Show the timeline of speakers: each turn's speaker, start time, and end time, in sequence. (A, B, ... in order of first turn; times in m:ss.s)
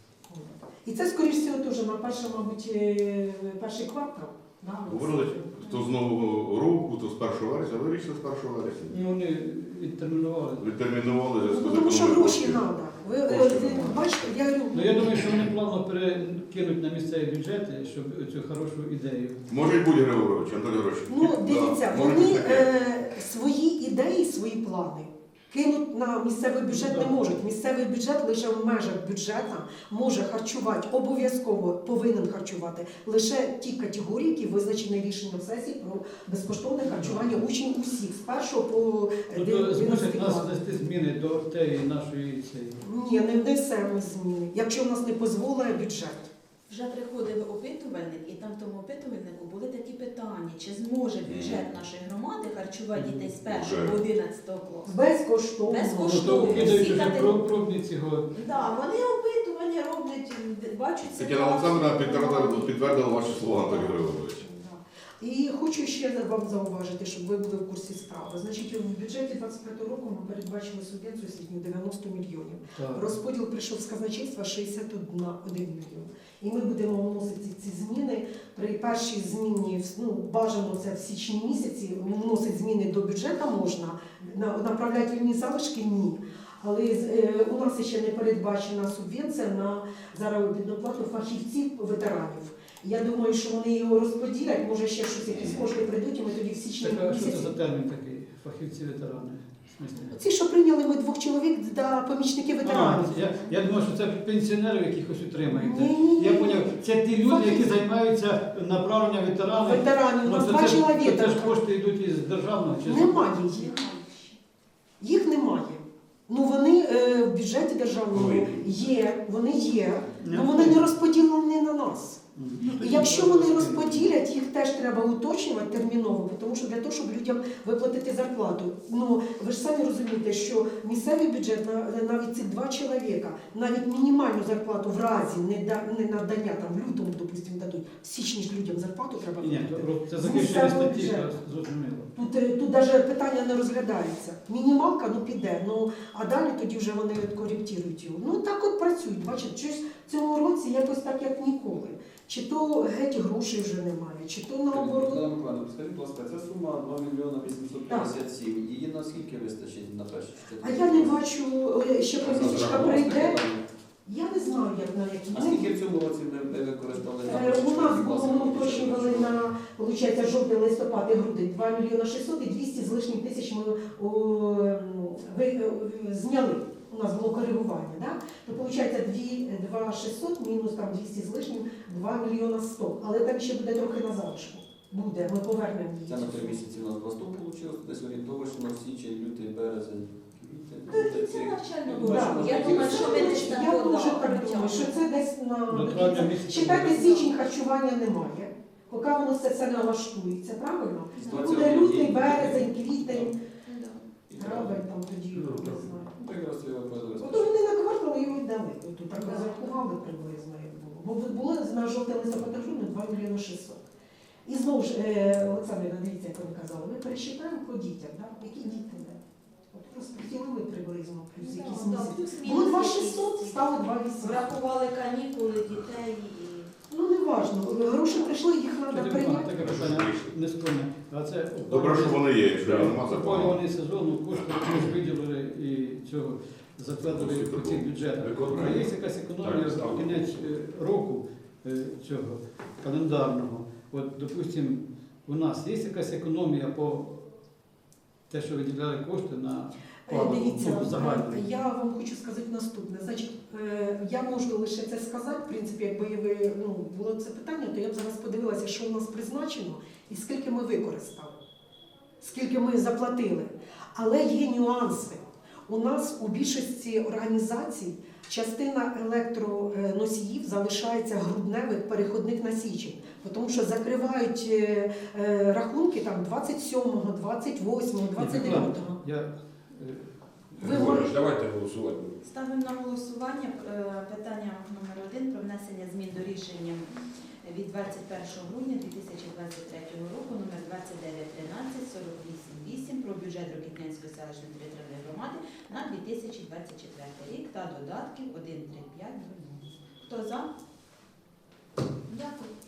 0:00.3-0:05.6 A
0:04.9-0:09.0 B
0:08.9-0:10.6 C
0:10.6-0:12.7 B
0:11.4-0:15.1 A
0:13.2-0:14.1 B
0:14.7-0:19.4 C
0:19.5-0:22.7 B
0:21.1-0:40.5 A
0:26.7-0:27.3 C
0:36.9-0:37.3 C
0:39.3-0:42.8 C
0:42.8-0:46.3 A
0:46.7-0:55.0 D
0:51.3-0:51.6 B
0:53.0-0:53.2 C
0:53.5-0:54.0 B
0:54.9-0:56.4 A
0:55.7-0:57.4 D
0:56.0-0:58.3 C
0:58.3-1:04.0 D
1:01.2-1:04.4 B
1:04.4-1:37.5 A
1:12.8-1:13.0 C
1:36.8-1:40.1 C
1:40.1-1:43.3 A
1:42.6-1:53.2 C
1:45.5-1:47.7 A
1:49.6-1:51.6 A
1:52.8-1:53.8 A
1:53.4-1:54.4 D
1:55.0-2:21.3 A
1:58.1-1:58.5 E
2:00.2-2:00.8 C
2:02.4-2:04.1 C
2:19.4-2:22.1 C
2:22.2-2:35.2 A
2:34.7-2:41.2 F
2:37.9-2:38.1 A
2:40.6-2:43.4 A
2:42.2-2:43.6 F
2:42.4-2:42.9 E
2:44.1-2:45.7 A
2:45.3-2:49.4 F
2:47.2-3:06.6 A
3:06.1-3:13.7 F
3:10.9-3:15.0 D
3:12.0-3:23.4 A
3:15.7-3:17.2 C
3:17.0-3:17.3 D
3:21.2-3:23.3 F
3:23.7-3:24.1 D
3:24.3-3:24.8 F
3:24.4-3:26.2 A
3:25.4-3:27.5 F
3:27.2-3:33.8 A
3:29.2-3:29.4 D
3:34.4-3:39.2 A
3:39.7-3:44.5 A
3:41.4-3:46.7 D
3:46.9-3:49.6 A
3:48.9-4:07.2 C
3:49.6-3:50.3 E
3:51.7-3:53.6 B
3:52.6-3:52.9 E
3:57.1-4:00.4 E
3:57.2-3:57.8 B
3:58.4-3:58.8 B
4:08.3-4:11.4 C
4:10.1-4:21.4 A
4:22.2-4:39.0 A
4:38.2-4:40.9 C
4:40.6-4:42.2 E
4:40.6-4:41.2 A
4:42.2-4:46.9 D
4:47.4-5:00.5 D
5:02.1-5:02.6 D